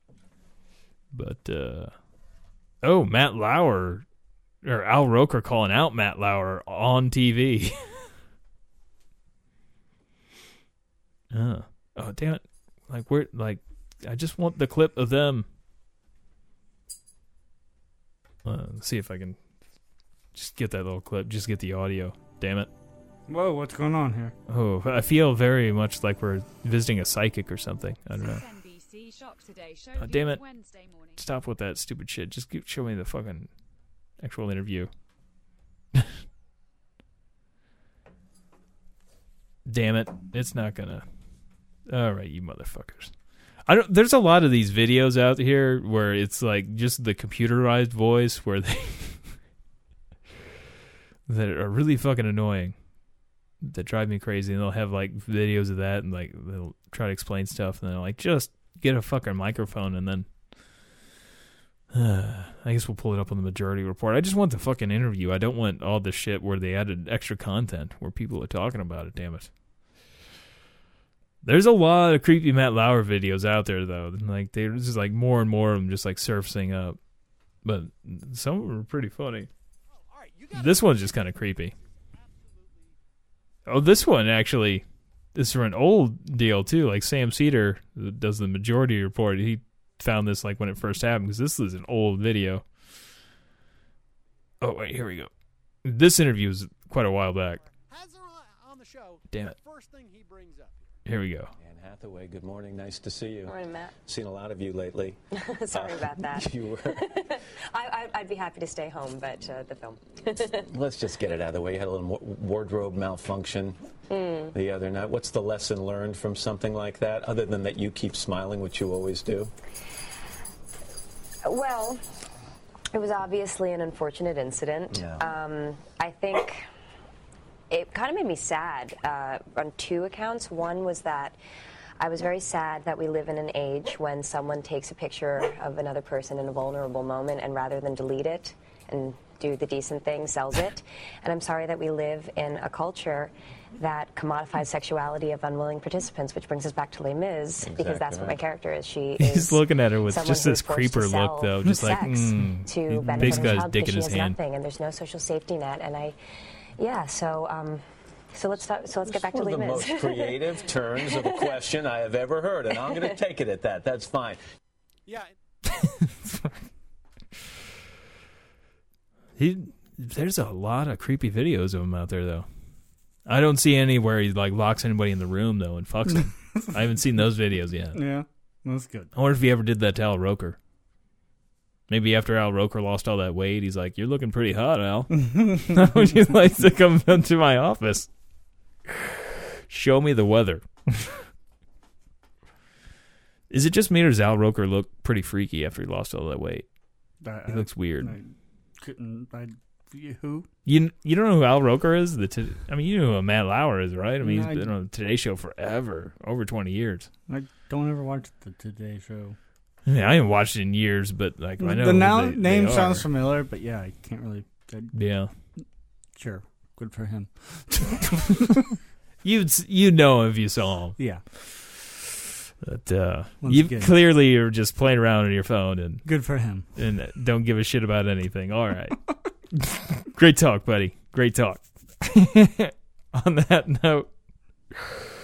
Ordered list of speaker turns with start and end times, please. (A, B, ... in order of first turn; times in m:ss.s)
0:01.1-0:01.9 A
0:02.8-0:04.0 A
0:04.6-0:07.8 A
0:11.3-0:15.5 A
0:18.4-0:19.4 A
0:20.3-0:22.7 A
0:23.3-0:24.3 B
0:24.5-0:28.4 A
0:28.1-0:31.2 C
0:30.0-0:30.4 A
0:31.2-0:33.5 A
0:34.2-0:34.9 A
0:39.7-0:41.0 A
0:41.9-0:43.1 A
0:43.7-0:49.2 A
0:51.3-0:52.8 A
0:53.6-1:00.3 A
1:01.9-1:09.5 A
1:11.4-1:17.0 A
1:17.6-1:19.5 A
1:19.9-1:23.0 D
1:20.5-1:21.7 A
1:23.7-1:32.6 A
1:34.6-1:35.3 A
1:35.8-1:37.6 A
1:37.6-1:40.8 D
1:41.1-1:41.5 A
1:41.6-1:45.2 E
1:43.5-1:43.9 F
1:45.4-1:50.7 F
1:45.7-1:47.2 E
1:50.5-1:53.8 E
1:54.1-1:54.5 F
1:54.5-1:59.5 E
2:01.4-2:02.0 F
2:02.9-2:06.6 F
2:04.9-2:05.2 E
2:07.7-2:11.4 F
2:12.0-2:36.2 F
2:27.6-2:28.4 E
2:29.2-2:34.4 A
2:33.1-2:33.6 B
2:36.8-2:37.8 F
2:38.3-2:40.5 F
2:39.0-2:44.4 E
2:41.1-2:41.5 F
2:45.1-2:45.3 D
2:45.7-2:46.6 A
2:49.4-2:52.5 A
2:53.3-2:58.0 A
2:57.9-2:59.1 B
2:59.2-3:00.6 A
3:01.9-3:08.1 A
3:05.2-3:06.2 B
3:08.9-3:11.2 A
3:13.5-3:16.7 A
3:17.2-3:20.5 B
3:17.5-3:18.2 A
3:20.7-3:27.1 A
3:24.2-3:24.7 B
3:27.3-3:29.4 B
3:29.9-3:33.1 A
3:31.6-3:34.9 B
3:34.9-3:35.3 A
3:36.2-3:38.8 B
3:39.2-3:46.0 A
3:41.0-3:41.2 B
3:43.4-3:43.9 B
3:46.0-3:46.7 B
3:46.8-3:49.0 A
3:49.5-3:54.1 A
3:54.8-3:55.0 A